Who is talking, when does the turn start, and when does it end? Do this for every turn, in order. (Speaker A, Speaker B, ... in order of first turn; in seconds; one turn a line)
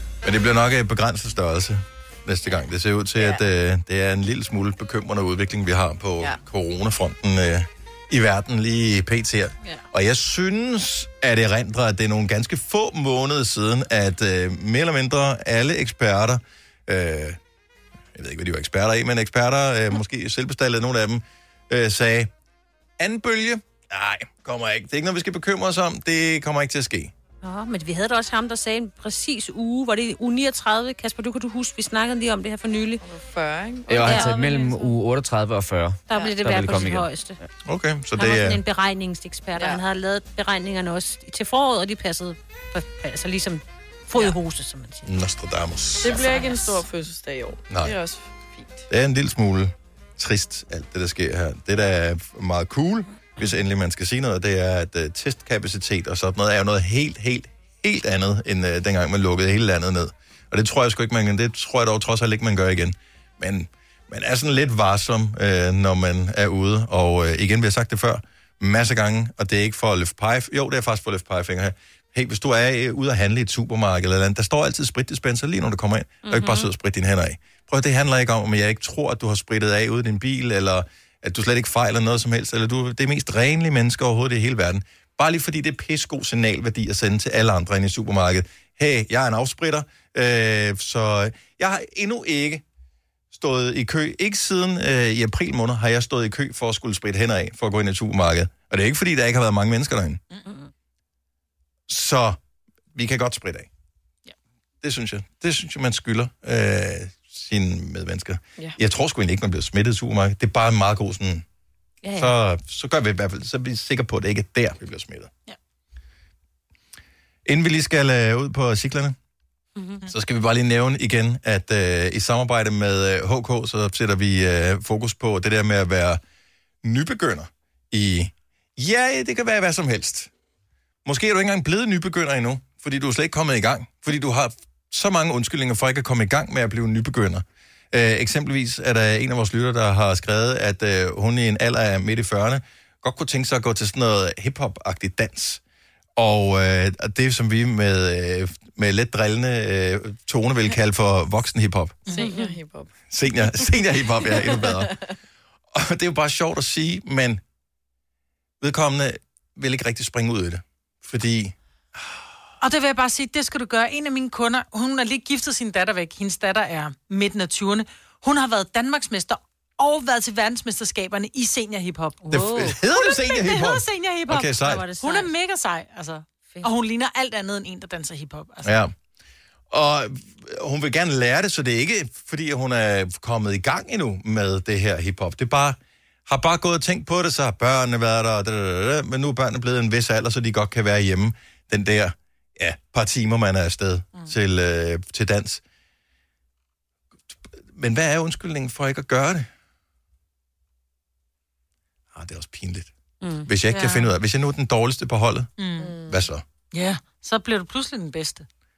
Speaker A: 0.2-17.4
Speaker B: 3.2-3.4
Speaker A: 18.1-22.3
Speaker A: 23.0-27.1
Speaker C: 27.4-33.0
Speaker B: 33.0-34.5
Speaker D: 33.9-37.1
Speaker C: 34.0-35.0
Speaker C: 36.1-37.4
Speaker A: 37.6-38.6
Speaker C: 38.2-45.1
Speaker B: 39.6-39.8
Speaker A: 45.0-46.3
Speaker B: 46.0-48.9
Speaker C: 46.2-46.8
Speaker A: 47.7-48.0
Speaker A: 48.9-92.6
Speaker C: 76.2-76.7
Speaker A: 93.3-100.2
Speaker A: 101.9-102.4
Speaker A: 103.0-103.7
Speaker A: 104.8-111.4
Speaker C: 112.0-112.3
Speaker A: 112.2-115.3
Speaker A: 117.5-119.2
Speaker C: 119.8-120.0
Speaker A: 120.1-126.2
Speaker A: 126.8-130.3
Speaker A: 131.1-145.6
Speaker A: 146.2-152.0
Speaker B: 152.1-152.9
Speaker C: 152.2-152.4
Speaker A: 153.1-154.9
Speaker B: 154.2-155.2
Speaker A: 155.7-157.4
Speaker A: 158.6-161.6
Speaker E: 162.6-172.3
Speaker C: 172.2-172.8
Speaker A: 172.3-174.8
Speaker E: 173.1-178.8
Speaker C: 174.6-175.3
Speaker A: 178.6-178.9
Speaker A: 179.7-195.6
Speaker A: 197.7-199.5
Speaker A: 202.1-202.9
Speaker C: 203.2-203.5
Speaker A: 203.5-205.5
Speaker E: 203.7-204.1
Speaker E: 205.6-205.9
Speaker B: 205.8-206.3
Speaker A: 206.1-206.4
Speaker E: 206.7-208.5